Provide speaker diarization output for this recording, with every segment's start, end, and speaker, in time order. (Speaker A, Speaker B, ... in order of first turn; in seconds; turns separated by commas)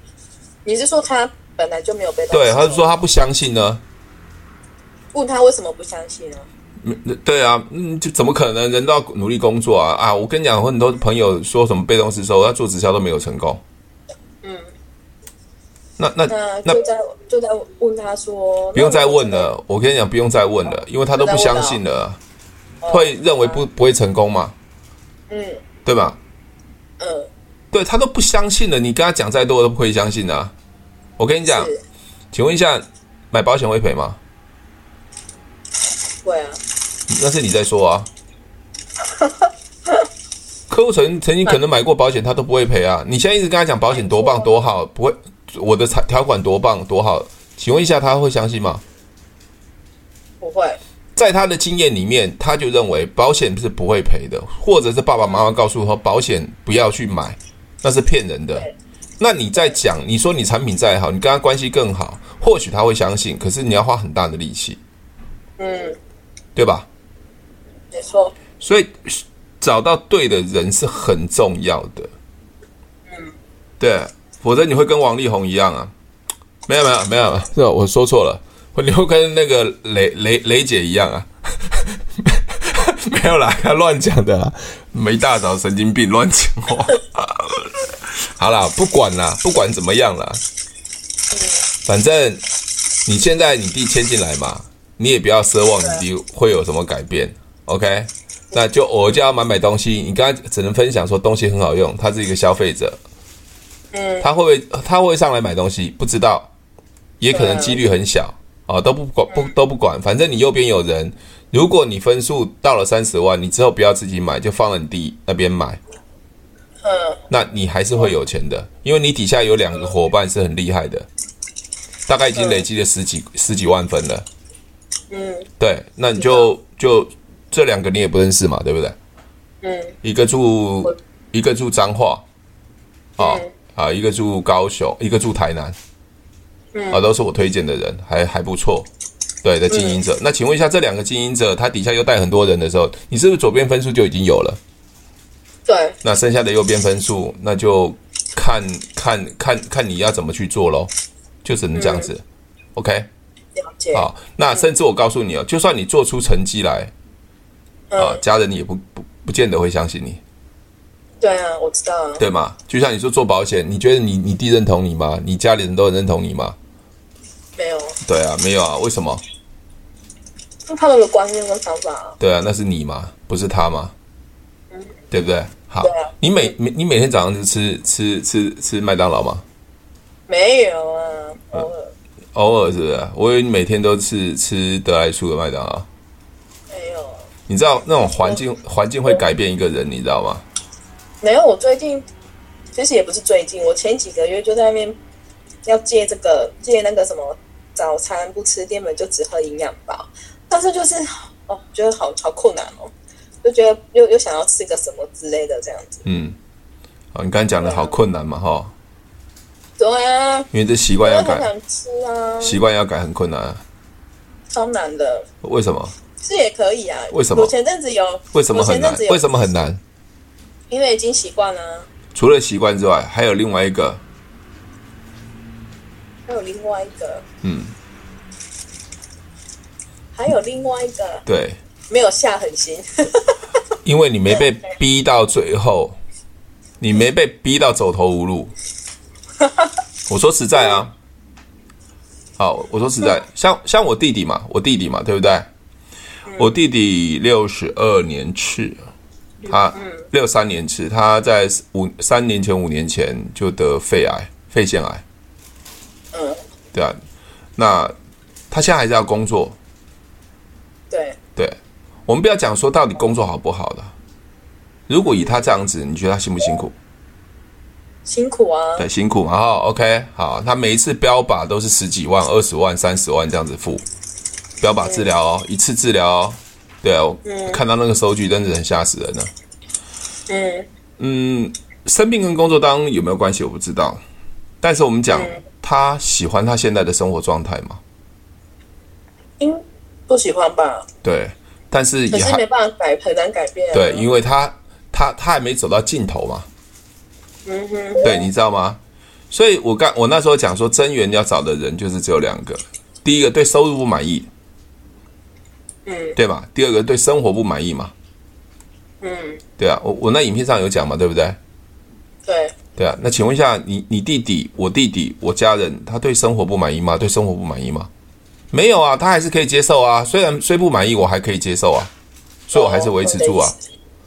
Speaker A: 0.6-2.9, Speaker B: 2.3-3.8, Speaker A: 5.1-6.5, Speaker B: 6.8-13.6, Speaker A: 14.4-14.7, Speaker B: 16.0-16.8, Speaker A: 16.3-19.5, Speaker B: 18.7-22.2, Speaker A: 21.2-21.8, Speaker A: 22.8-23.6, Speaker B: 22.9-24.5, Speaker A: 25.3-25.6, Speaker B: 25.8-26.2, Speaker A: 27.0-27.3, Speaker B: 27.7-30.5, Speaker B: 31.2-31.7, Speaker A: 31.4-31.8, Speaker B: 32.3-34.2, Speaker A: 36.2-36.6, Speaker B: 37.1-38.1, Speaker A: 39.1-40.0, Speaker B: 40.7-48.8, Speaker A: 43.9-44.6, Speaker A: 50.4-50.8, Speaker B: 51.1-58.7, Speaker A: 55.2-55.5, Speaker B: 59.2-64.8, Speaker A: 65.6-66.0, Speaker B: 66.5-66.9, Speaker A: 67.9-68.3, Speaker B: 68.6-72.1, Speaker A: 73.1-73.3, Speaker B: 73.8-75.9, Speaker B: 76.7-90.4, Speaker B: 91.8-92.4, Speaker B: 93.0-103.0, Speaker A: 103.9-104.3, Speaker B: 104.2-106.5, Speaker B: 107.2-115.8, Speaker A: 107.3-107.8, Speaker A: 116.8-117.2, Speaker B: 117.3-121.1, Speaker B: 122.1-124.2, Speaker A: 122.3-122.7, Speaker A: 125.1-125.5, Speaker B: 125.6-128.9, Speaker A: 126.2-126.5, Speaker A: 129.6-129.9, Speaker B: 130.0-132.2, Speaker B: 133.2-135.8, Speaker A: 133.2-133.5, Speaker A: 136.7-137.0, Speaker B: 136.9-138.9, Speaker B: 139.4-144.6, Speaker A: 139.7-140.0, Speaker A: 145.7-145.9, Speaker B: 146.0-150.9, Speaker B: 151.4-152.2, Speaker A: 151.7-152.1, Speaker B: 152.8-153.1, Speaker A: 153.5-154.7, Speaker B: 153.9-156.9, Speaker A: 157.9-158.2, Speaker B: 158.0-160.2, Speaker A: 161.2-162.2, Speaker B: 162.2-166.6, Speaker A: 167.6-168.0, Speaker B: 168.0-169.2, Speaker A: 170.7-172.2, Speaker B: 172.2-173.9, Speaker B: 175.1-179.4, Speaker A: 175.8-176.1, Speaker A: 180.3-181.9, Speaker B: 182.3-185.9, Speaker A: 186.7-187.2, Speaker B: 187.5-190.4, Speaker A: 191.2-192.1, Speaker A: 192.7-195.0, Speaker A: 195.6-202.9, Speaker A: 203.4-206.0, Speaker B: 206.0-206.4, Speaker B: 207.1-208.7, Speaker A: 207.6-207.9, Speaker A: 209.8-210.5, Speaker B: 210.5-211.5, Speaker A: 211.0-212.6, Speaker B: 212.4-213.6, Speaker A: 214.5-215.3, Speaker B: 215.4-215.9, Speaker A: 216.2-219.3, Speaker B: 217.1-217.5, Speaker B: 218.3-219.8, Speaker A: 220.7-221.9, Speaker B: 222.1-224.0, Speaker A: 226.3-227.2, Speaker B: 227.4-227.7, Speaker A: 230.1-231.2, Speaker B: 231.2-231.6, Speaker A: 231.9-233.4, Speaker B: 233.8-236.0, Speaker B: 236.8-238.5, Speaker A: 239.4-239.7, Speaker B: 240.1-240.9, Speaker B: 242.4-245.5, Speaker B: 246.4-248.8, Speaker B: 249.5-255.0, Speaker A: 249.7-250.0, Speaker A: 256.1-256.4, Speaker B: 256.7-257.0, Speaker B: 257.6-257.9, Speaker B: 258.5-259.6, Speaker A: 260.9-261.2, Speaker B: 261.4-263.9, Speaker B: 264.9-266.7, Speaker A: 265.0-265.5, Speaker A: 268.1-268.9, Speaker B: 268.8-273.8, Speaker B: 274.6-279.3, Speaker A: 274.8-275.1, Speaker A: 277.2-277.6, Speaker A: 280.3-280.7, Speaker B: 281.0-284.0, Speaker B: 284.6-287.8, Speaker A: 285.1-285.4, Speaker A: 289.4-290.9, Speaker B: 291.0-292.4, Speaker A: 292.1-294.1, Speaker B: 293.7-296.5, Speaker A: 297.4-298.2, Speaker B: 298.0-298.8, Speaker B: 299.3-304.3, Speaker A: 305.9-306.2, Speaker B: 306.1-307.9, Speaker A: 309.0-309.4, Speaker B: 309.6-311.4, Speaker A: 312.2-312.5, Speaker B: 312.8-317.9, Speaker B: 318.5-321.9, Speaker B: 322.5-323.5, Speaker A: 322.5-323.6